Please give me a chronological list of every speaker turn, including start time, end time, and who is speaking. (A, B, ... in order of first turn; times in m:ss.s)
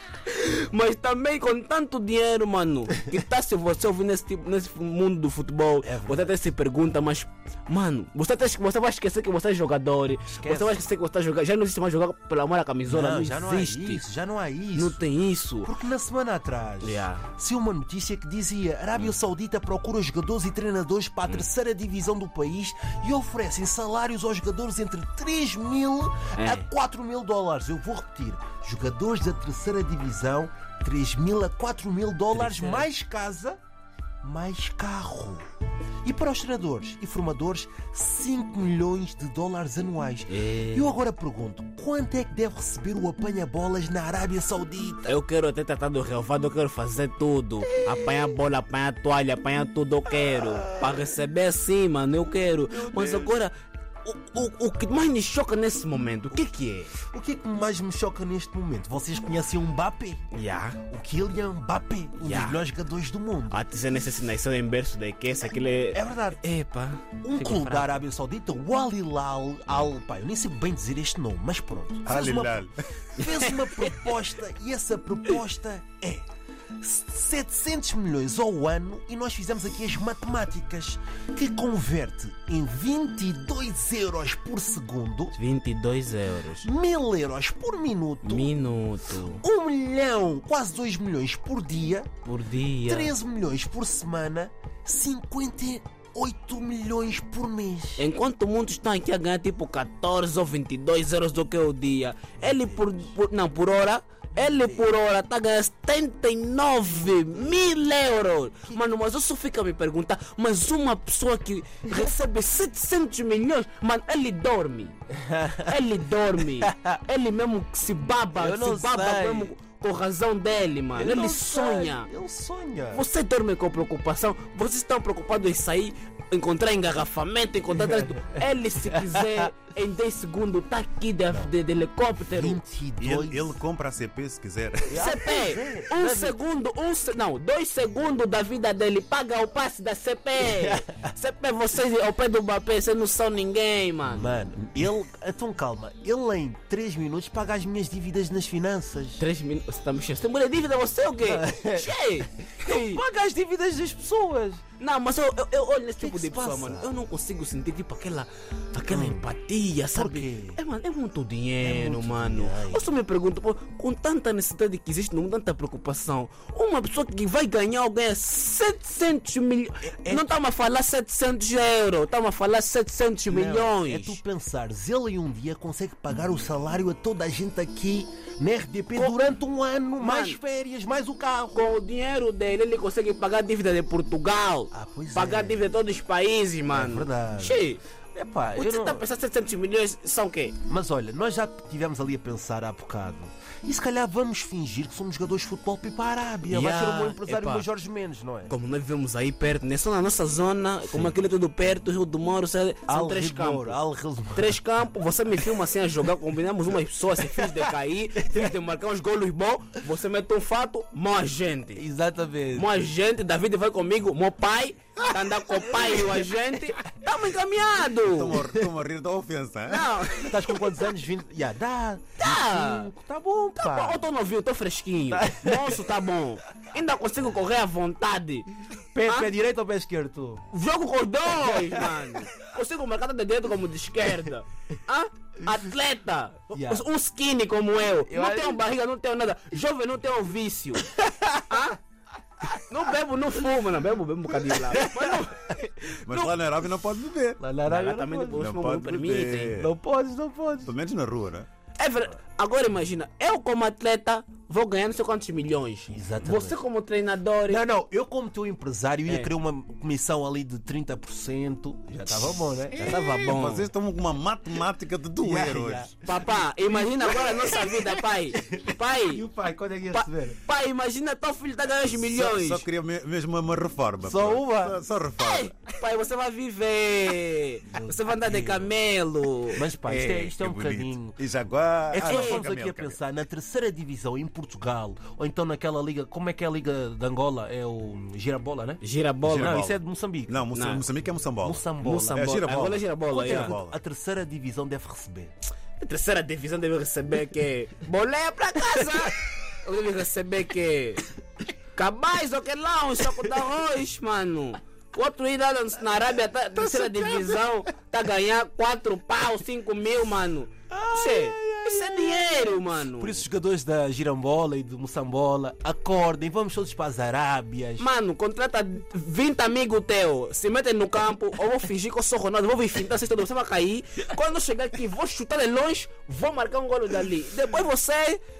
0:00.2-0:14.0 A
0:05.8-0:06.3 B
0:10.4-0:10.9 B
0:12.9-0:15.0 B
0:14.7-0:15.7 A
0:15.6-0:33.6 B
0:16.8-0:17.2 A
0:26.3-0:26.7 A
0:32.3-0:32.9 A
0:34.2-0:35.4 B
0:36.0-0:45.1 B
0:40.3-0:41.0 A
0:45.0-0:57.0 A
0:50.4-0:51.0 B
0:52.7-0:53.3 B
0:57.0-1:00.2 B
1:00.3-1:00.8 A
1:00.8-1:03.6 B
1:02.2-1:02.6 A
1:03.5-1:08.0 A
1:05.9-1:06.4 B
1:07.2-1:16.2 B
1:12.0-1:12.8 C
1:13.2-1:14.2 A
1:16.8-1:25.3 B
1:25.3-1:26.7 A
1:26.6-1:28.5 B
1:28.2-1:29.4 A
1:29.4-1:32.1 B
1:32.2-1:33.1 A
1:32.9-1:38.0 B
1:38.0-1:55.0 A
1:42.4-1:43.1 B
1:44.4-1:44.8 B
1:55.1-1:55.8 B
1:55.6-2:02.1 A
1:56.6-1:57.0 B
1:58.3-1:59.5 B
2:00.9-2:03.0 B
2:02.9-2:12.6 A
2:07.8-2:09.5 B
2:12.2-2:13.5 B
2:13.0-2:15.0 C
2:14.9-2:16.4 B
2:14.9-2:24.3 A
2:20.4-2:21.1 B
2:24.1-2:29.2 B
2:29.2-2:33.0 A
2:31.2-2:34.6 B
2:34.8-2:54.2 A
2:36.0-2:36.9 B
2:38.9-2:39.2 B
2:39.9-2:40.6 B
2:41.6-2:42.9 B
2:49.8-2:50.3 B
2:53.3-3:01.6 B
3:00.0-3:00.4 A
3:01.5-3:07.8 A
3:04.7-3:05.7 B
3:06.7-3:09.0 B
3:08.5-3:10.6 A
3:10.6-3:18.5 B
3:16.5-3:17.6 A
3:18.5-3:23.8 A
3:22.9-3:24.6 B
3:24.3-3:31.8 A
3:27.2-3:27.7 B
3:28.2-3:28.5 B
3:31.7-3:32.7 B
3:32.5-3:38.4 A
3:35.5-3:36.3 B
3:38.0-3:39.9 C
3:39.7-3:40.6 A
3:40.3-3:44.0 B
3:42.2-3:42.9 A
3:43.6-3:48.5 A
3:45.1-3:45.9 B
3:48.9-3:50.4 B
3:49.0-3:49.3 A
3:50.5-4:00.9 A
3:51.3-3:52.3 B
3:56.5-3:56.8 B
3:58.0-3:58.6 B
4:00.8-4:01.6 B
4:01.4-4:01.8 A
4:02.6-4:06.3 A
4:04.3-4:05.2 B
4:06.0-4:07.4 C
4:07.4-4:08.4 B
4:07.6-4:09.6 A
4:08.3-4:09.7 C
4:09.6-4:10.7 B
4:10.6-4:11.5 C
4:11.8-4:17.6 A
4:15.9-4:16.6 B
4:17.5-4:23.0 B
4:22.8-4:23.7 A
4:23.0-4:25.9 C
4:25.2-4:30.4 B
4:26.0-4:29.2 A
4:29.9-4:32.6 A
4:32.0-4:35.5 C
4:34.0-4:34.8 B
4:35.2-4:39.6 A
4:37.7-4:38.7 B
4:39.5-4:41.2 B
4:39.8-4:43.0 C
4:41.9-4:50.4 B
4:42.1-4:42.4 A
4:48.8-4:49.6 A
4:49.2-4:53.8 C
4:50.5-4:50.8 A
4:51.4-4:52.6 B
4:51.8-4:53.5 A
4:53.1-4:55.3 B
4:55.8-5:01.1 A
5:01.7-5:13.2 A
5:06.6-5:07.5 B
5:10.7-5:17.8 B
5:17.8-5:28.2 A